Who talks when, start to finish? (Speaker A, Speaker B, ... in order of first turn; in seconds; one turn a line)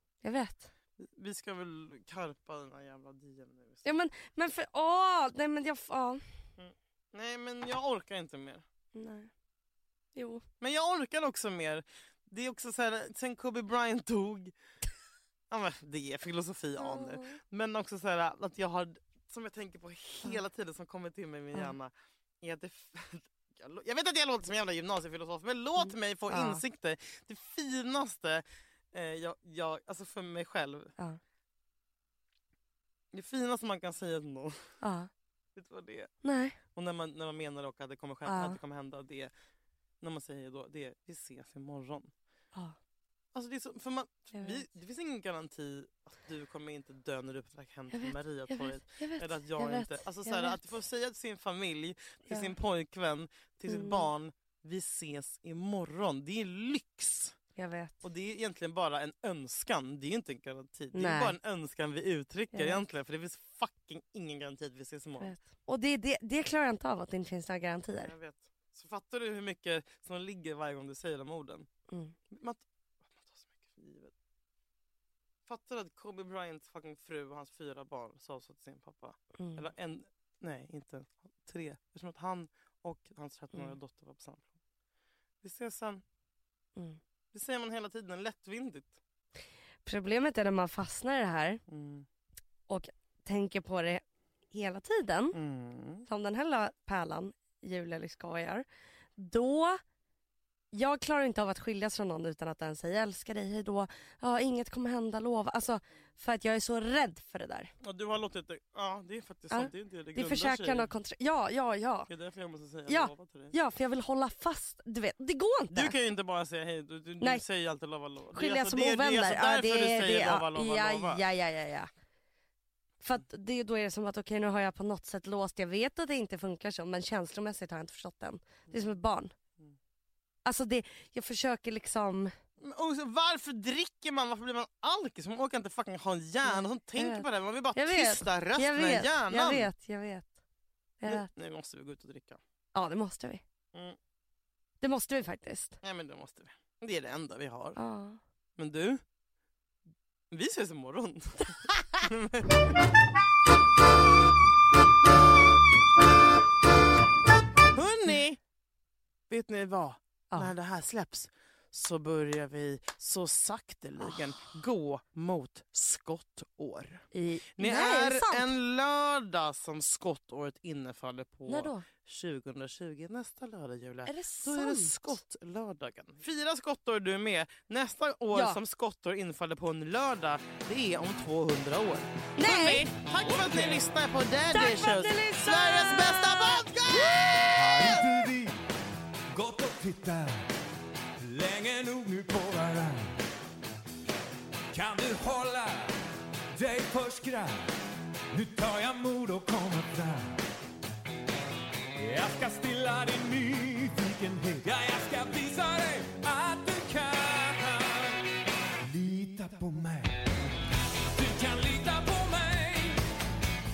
Speaker A: 0.2-0.7
Speaker B: 1.0-3.9
Speaker A: 3.8-6.2
Speaker B: 6.6-8.6
Speaker A: 8.9-9.3
Speaker A: 10.1-10.4
Speaker B: 10.6-14.5
Speaker B: 15.5-30.9
Speaker A: 16.8-17.4
Speaker A: 25.8-26.6
Speaker B: 33.1-34.6
Speaker A: 34.8-35.1
Speaker B: 35.5-36.1
Speaker A: 36.2-36.6
Speaker B: 36.7-39.3
Speaker A: 38.3-38.6
Speaker B: 40.0-42.1
Speaker B: 43.3-57.3
Speaker A: 44.3-44.6
Speaker A: 47.9-50.6
Speaker A: 52.3-52.5
Speaker A: 53.7-54.1
Speaker A: 57.5-58.0
Speaker B: 58.0-65.3
Speaker A: 60.9-61.4
Speaker A: 62.5-62.8
Speaker A: 65.2-68.1
Speaker B: 68.0-71.7
Speaker A: 71.9-72.1
Speaker B: 72.3-74.1
Speaker B: 75.5-84.5
Speaker A: 79.4-79.6
Speaker B: 85.4-86.0
Speaker B: 87.3-89.0
Speaker A: 89.8-91.6
Speaker B: 91.7-92.0
Speaker A: 92.7-95.4
Speaker B: 95.3-96.0
Speaker A: 96.1-98.7
Speaker A: 99.2-99.8
Speaker A: 100.7-107.7
Speaker B: 107.8-110.9
Speaker A: 109.5-112.1
Speaker B: 112.1-113.5
Speaker A: 112.9-116.0
Speaker B: 115.7-121.2
Speaker A: 118.3-121.9
Speaker A: 123.0-129.3
Speaker A: 130.4-132.3
Speaker B: 132.6-139.7
Speaker A: 136.4-140.3
Speaker A: 141.0-141.3
Speaker B: 141.1-142.4
Speaker A: 142.7-143.4
Speaker A: 144.8-145.8
Speaker B: 145.8-147.8
Speaker A: 147.8-148.2
Speaker B: 148.6-149.0
Speaker B: 150.3-152.7
Speaker B: 157.7-158.4
Speaker B: 159.3-167.0
Speaker A: 167.1-168.5
Speaker B: 167.6-188.1
Speaker A: 171.5-171.8
Speaker A: 174.1-175.2
Speaker A: 178.3-178.6
Speaker A: 182.4-183.3
Speaker A: 184.5-187.9
Speaker C: 187.6-188.6
Speaker C: 189.3-190.5
Speaker C: 191.2-193.2
Speaker C: 194.7-196.0
Speaker C: 196.5-197.7
Speaker C: 198.3-200.4
Speaker C: 202.0-208.2
Speaker C: 208.8-210.3
Speaker C: 211.1-213.0